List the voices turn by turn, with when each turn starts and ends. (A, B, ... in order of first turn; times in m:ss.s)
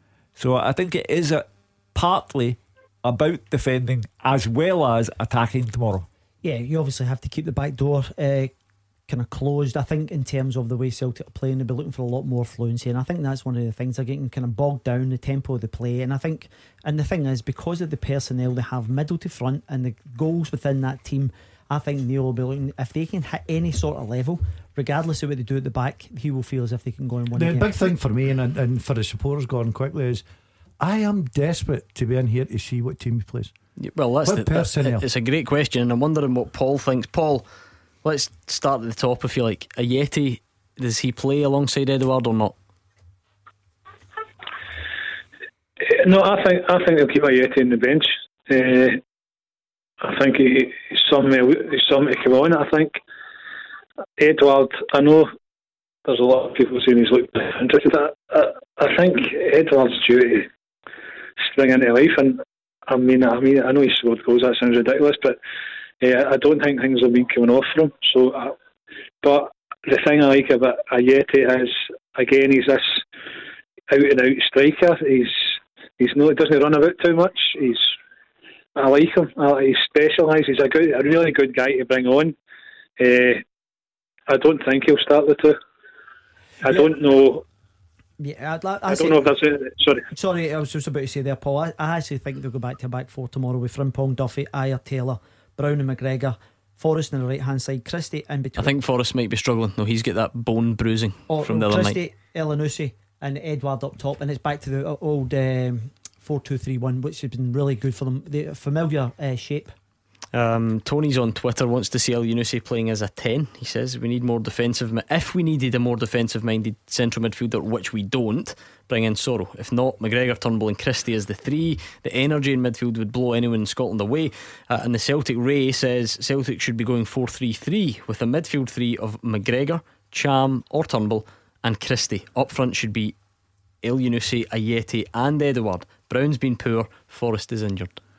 0:00.4-0:06.1 A
0:06.4-0:08.5 B
0:09.1-0:27.7 B
0:27.3-0:30.2 C
0:30.8-0:33.5 C
0:33.8-0:37.4 D
0:34.2-0:35.0 C
0:38.0-0:42.5 D
0:45.8-0:49.0 E
0:50.0-0:53.0 E
0:54.2-0:55.3 E
0:56.0-1:00.5 E
1:01.4-1:05.4 E
1:06.0-1:08.5 E
1:09.2-1:13.0 E
1:13.9-1:17.9 E
1:18.8-1:22.3 E
1:23.0-1:23.4 E
1:24.3-1:25.6 E
1:26.6-1:27.4 E
1:28.2-1:29.3 B
1:28.9-1:30.0 E
1:30.1-1:38.7 B
1:38.6-1:42.0 D
1:41.3-1:49.7 B
1:50.3-2:13.1 D
2:13.8-2:18.0 D